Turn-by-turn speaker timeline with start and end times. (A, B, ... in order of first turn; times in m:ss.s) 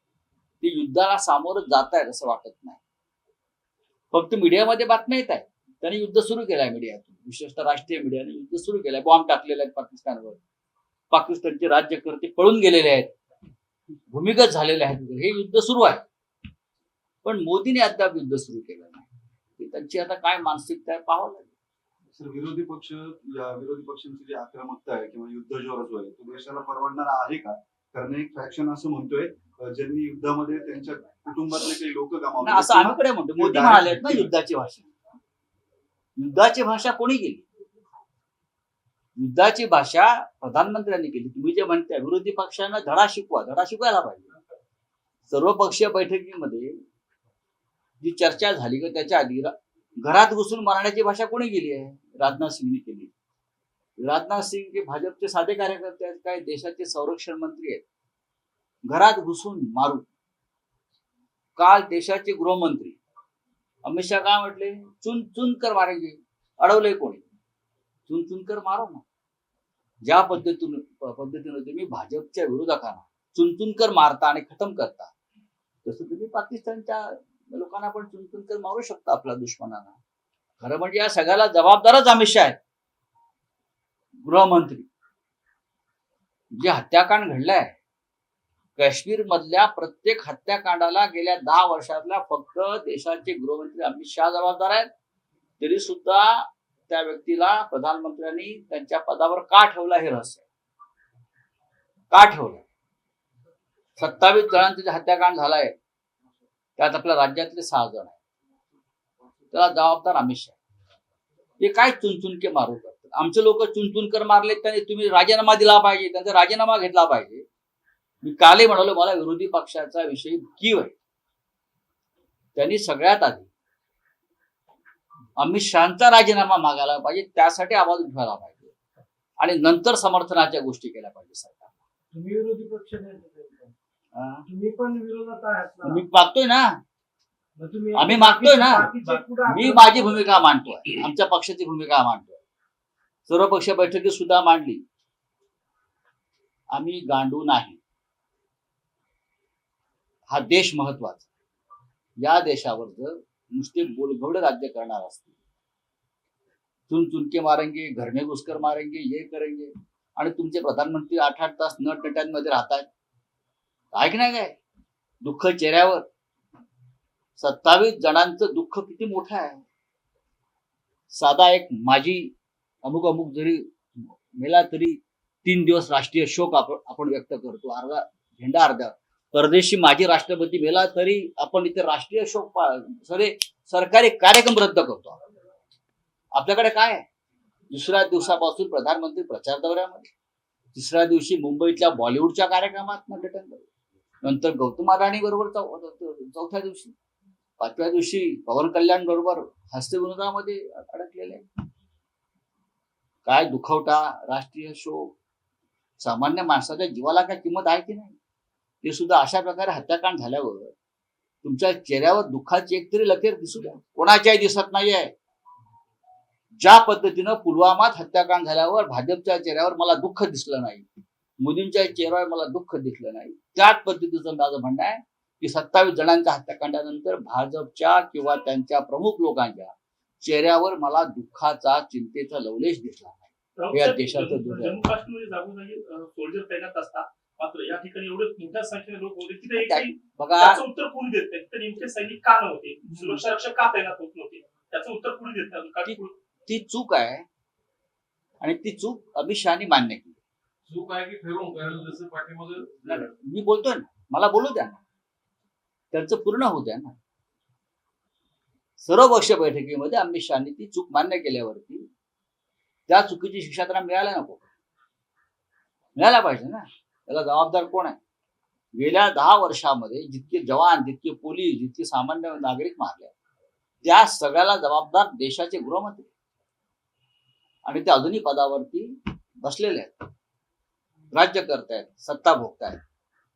0:00.6-0:02.8 A
0:04.1-0:10.4 A
0:11.1-0:13.1 A
0:14.1-0:16.0 A
0:17.2-0:19.1 A
0:19.6-0:21.5 A
0:22.1-0:34.3 B
0:32.4-0:34.9 A
0:36.2-0:37.4 A
0:39.2-0:44.3 A
0:45.3-0:46.8 A
0:48.0-0:53.1 A
0:54.0-0:57.8 A
0:58.9-1:00.1 A
1:01.6-1:03.0 A
1:03.8-1:07.2 A
1:08.1-1:09.0 A
1:10.0-1:15.1 A
1:15.8-1:20.0 A
1:20.6-1:22.6 A
1:24.2-1:24.9 A
1:26.5-1:27.7 A
1:28.8-1:34.9 A
1:35.6-1:40.4 A
1:42.1-1:42.6 A
1:44.0-1:45.8 A
1:46.8-1:48.2 A
1:49.5-1:50.6 A
1:51.6-1:57.4 A
1:58.2-2:00.9 A
2:02.6-2:03.5 A
2:05.4-2:08.7 A
2:09.4-2:11.7 A
2:12.1-2:13.7 C
2:14.1-2:14.5 A
2:14.5-2:16.0 C
2:15.8-2:16.8 A
2:17.6-2:20.3 C
2:18.0-2:22.4 A
2:23.3-2:24.8 A
2:26.7-2:27.8 A
2:30.3-2:31.3 A
2:32.2-2:35.3 A
2:36.9-2:42.9 A
2:43.9-2:44.6 A
2:45.2-2:46.1 A
2:47.4-2:49.6 A
2:51.1-3:05.2 A
3:06.3-3:07.1 A
3:07.7-3:10.1 A
3:10.7-3:13.6 A
3:14.2-3:16.9 A
3:17.6-3:21.4 A
3:23.3-3:25.2 A
3:26.0-3:28.2 A
3:28.8-3:30.7 A
3:31.4-3:35.1 A
3:36.6-3:40.9 A
3:41.4-3:54.8 A
3:53.6-4:06.2 D
3:59.5-4:00.6 A
4:05.8-4:07.3 A
4:08.4-4:10.2 A
4:10.7-4:13.0 E
4:12.9-4:14.8 A
4:15.9-4:17.0 A
4:18.8-4:21.9 A
4:22.9-4:24.5 A
4:26.0-4:28.0 A
4:28.8-4:33.1 A
4:33.8-4:36.1 A
4:37.6-4:40.1 A
4:41.1-4:42.8 A